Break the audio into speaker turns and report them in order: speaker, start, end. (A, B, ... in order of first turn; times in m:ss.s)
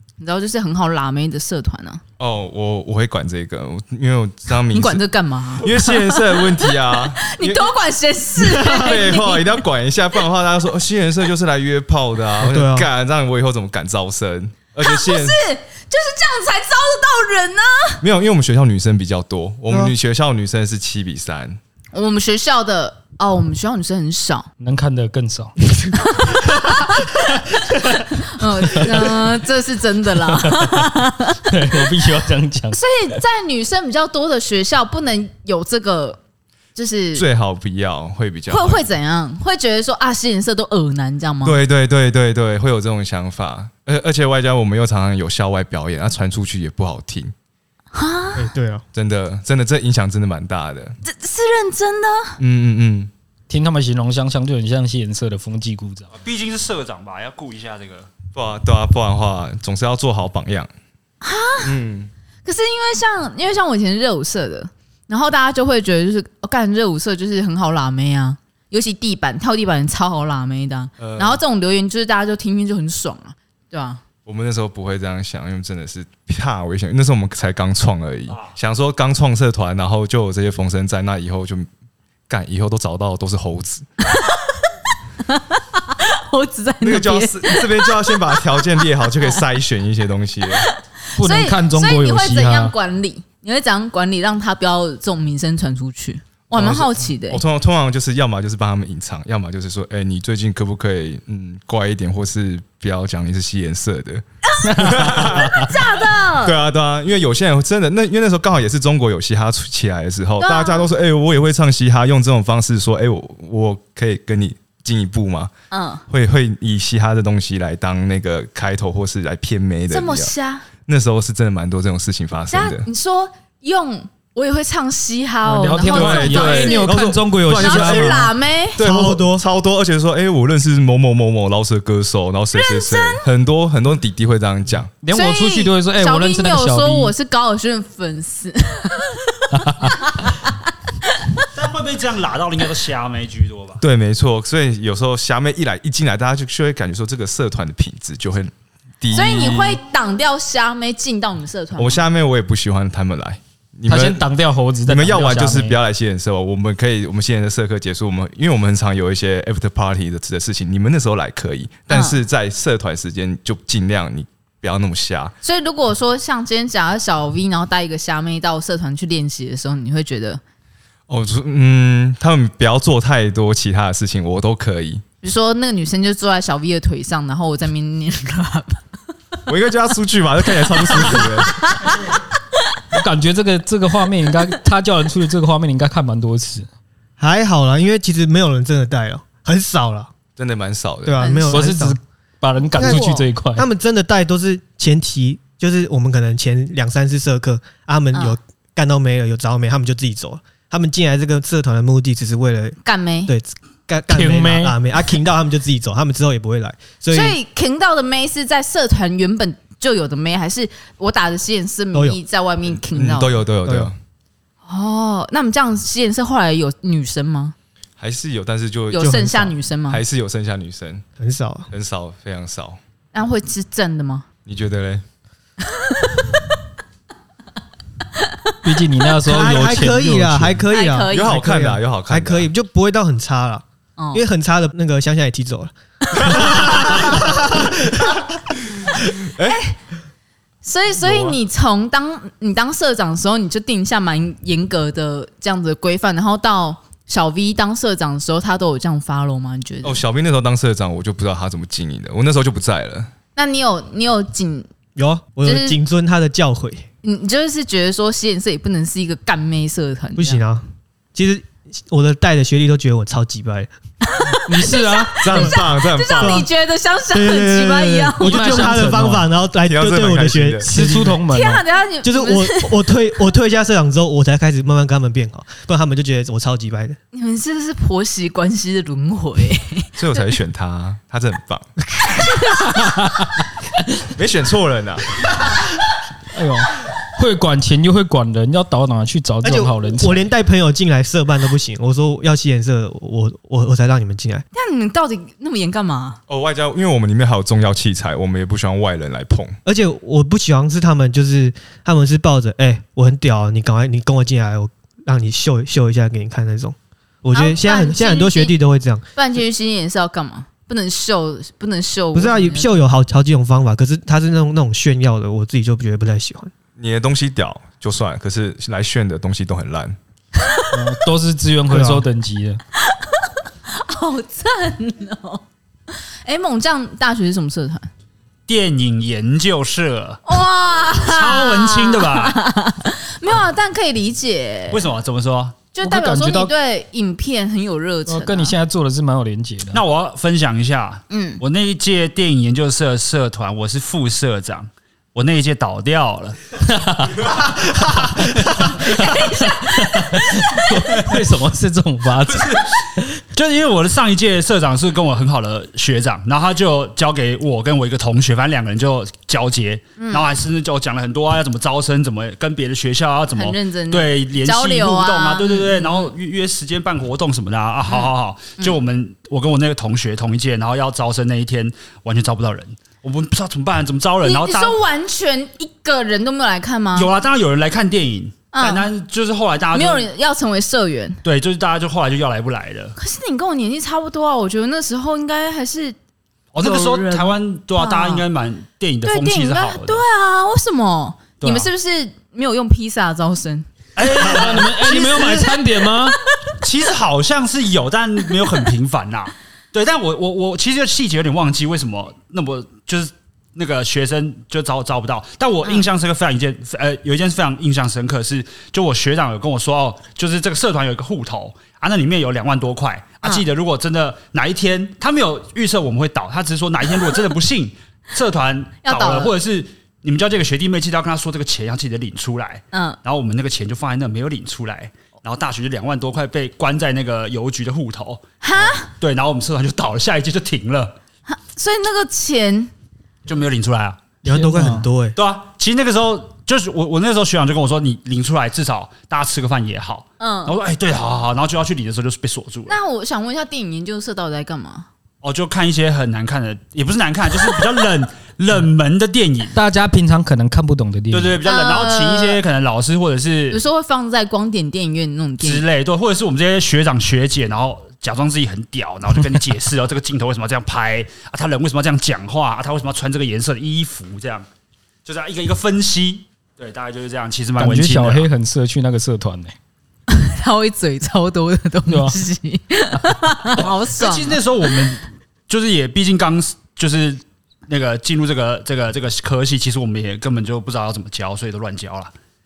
0:00.2-0:02.0 A
0:02.2-0:05.0 B
0:04.7-0:09.6 A
0:05.6-0:07.7 B
0:08.4-0:15.4 B
0:12.4-0:12.9 C
0:14.8-0:18.0 A
0:18.0-0:21.6 B
0:19.7-0:19.9 C
0:21.9-0:24.5 A
0:24.6-0:25.5 D
0:26.0-0:27.3 A
0:27.7-0:28.0 D
0:28.0-0:32.0 A
0:28.6-0:29.2 D
0:30.2-0:32.8 D
0:32.7-0:36.2 A
0:36.8-0:37.3 A
0:37.2-0:38.8 B
0:38.5-0:41.6 A
0:41.4-0:47.3 B
0:47.9-0:48.5 A
0:48.4-0:48.8 C
0:48.9-0:51.0 B
0:51.0-0:52.4 A
0:52.4-0:53.1 B
0:53.5-0:56.1 D
0:56.1-0:58.1 E
0:58.3-1:00.7 B
1:01.2-1:01.8 A
1:01.6-1:02.1 B
1:02.4-1:14.0 A
1:11.0-1:11.4 B
1:14.2-1:21.7 B
1:18.3-1:18.6 E
1:22.3-1:23.9 B
1:25.2-1:28.5 A
1:26.8-1:30.7 B
1:30.6-1:37.4 A
1:31.2-1:32.7 D
1:36.5-1:44.2 B
1:44.5-1:46.6 A
1:44.6-1:45.7 D
1:44.8-1:55.5 B
1:50.4-1:50.9 A
1:55.7-1:56.0 A
1:56.1-2:02.9 B
1:59.9-2:00.7 A
2:02.5-2:08.8 A
2:05.4-2:08.3 D
2:05.9-2:14.9 B
2:08.8-2:09.4 C
2:12.5-2:13.3 A
2:15.0-2:17.1 D
2:15.1-2:21.5 A
2:19.5-2:20.0 D
2:21.5-2:23.8 E
2:23.8-2:29.8 B
2:29.1-2:32.0 A
2:31.8-2:34.3 B
2:33.9-2:35.8 D
2:34.8-2:45.4 B
2:41.9-2:42.2 A
2:45.4-2:50.4 A
2:51.1-2:55.0 B
2:55.2-2:58.8 A
2:59.5-3:01.8 B
3:00.8-3:02.0 A
3:02.9-3:06.7 D
3:07.2-3:10.1 C
3:10.4-3:11.3 B
3:11.0-3:12.0 C
3:11.2-3:11.6 A
3:11.5-3:13.7 D
3:12.8-3:27.4 C
3:12.8-3:13.2 A
3:22.8-3:23.3 A
3:24.1-3:24.8 D
3:27.1-3:33.4 A
3:31.9-3:32.2 C
3:32.9-3:34.0 B
3:33.6-3:33.9 C
3:34.7-3:37.6 A
3:38.0-3:41.0 B
3:38.9-3:40.0 A
3:39.0-3:39.5 C
3:41.2-3:41.7 C
3:41.7-3:42.8 B
3:43.1-3:44.3 A
3:44.5-3:45.0 B
3:45.8-3:46.4 A
3:48.3-3:48.5 A
3:48.6-3:50.6 D
3:49.2-3:57.8 C
3:50.7-3:51.4 A
3:51.1-3:52.5 B
3:54.0-3:54.2 A
3:56.2-3:57.1 A
3:56.2-3:57.2 B
3:59.3-3:59.6 B
3:59.5-3:59.8 A
4:00.6-4:10.0 A
4:09.8-4:13.1 B
4:13.4-4:14.7 A
4:15.0-4:16.9 C
4:15.4-4:15.8 A
4:17.0-4:20.4 A
4:20.2-4:23.7 C
4:24.1-4:28.8 A
4:24.5-4:25.2 D
4:25.2-4:26.4 B
4:26.1-4:26.5 C
4:27.1-4:31.2 C
4:28.2-4:29.3 D
4:29.7-4:30.9 B
4:30.6-4:31.6 D
4:31.3-4:32.9 A
4:32.0-4:37.0 C
4:37.1-4:39.9 A
4:40.0-4:41.7 B
4:42.0-4:43.0 A
4:42.8-4:43.4 D
4:44.1-4:45.4 B
4:46.3-4:50.3 D
4:49.4-4:54.5 C
4:54.5-4:56.2 A
4:56.3-4:59.6 B
4:59.6-5:09.0 C
5:07.3-5:08.6 A
5:09.2-5:12.8 A
5:12.1-5:16.5 C
5:16.8-5:20.0 B
5:20.7-5:22.6 D
5:21.7-5:22.0 C
5:23.0-5:27.9 A
5:28.5-5:30.2 E
5:30.3-5:34.9 A
5:31.0-5:32.4 E
5:34.7-5:35.6 E
5:35.7-5:38.6 A
5:35.8-5:36.5 D
5:38.1-5:39.8 D
5:39.7-5:46.4 E
5:41.1-5:41.4 A
5:46.6-5:53.2 D
5:48.7-5:50.8 A
5:53.3-6:14.8 E
6:00.0-6:00.3 A
6:03.4-6:06.1 A
6:07.9-6:08.8 A
6:14.2-6:17.1 A
6:16.9-6:20.1 E
6:18.5-6:18.9 A
6:19.7-6:21.2 A
6:21.2-6:23.0 E
6:23.0-6:26.0 A
6:26.5-6:30.0 E
6:26.6-6:28.2 A
6:29.0-6:33.7 A
6:31.4-6:31.7 E
6:34.0-6:35.5 E
6:34.2-6:36.2 D
6:34.6-6:36.6 A
6:36.6-7:11.0 E
6:58.8-6:59.3 A
7:02.7-7:03.0 A
7:08.4-7:08.9 A
7:11.3-7:12.7 A
7:13.3-7:14.0 E
7:14.2-7:15.2 C
7:14.3-7:14.9 D
7:15.2-7:22.8 E
7:20.2-7:20.5 A
7:22.7-7:24.9 A
7:25.2-7:29.6 E
7:29.5-7:31.4 D
7:31.1-7:33.6 E
7:31.4-7:32.4 A
7:33.5-7:35.6 A
7:35.4-7:44.5 E
7:45.0-7:48.3 E
7:47.6-7:49.6 D
7:50.1-7:54.4 A
7:51.9-7:52.2 D
7:53.5-8:02.1 E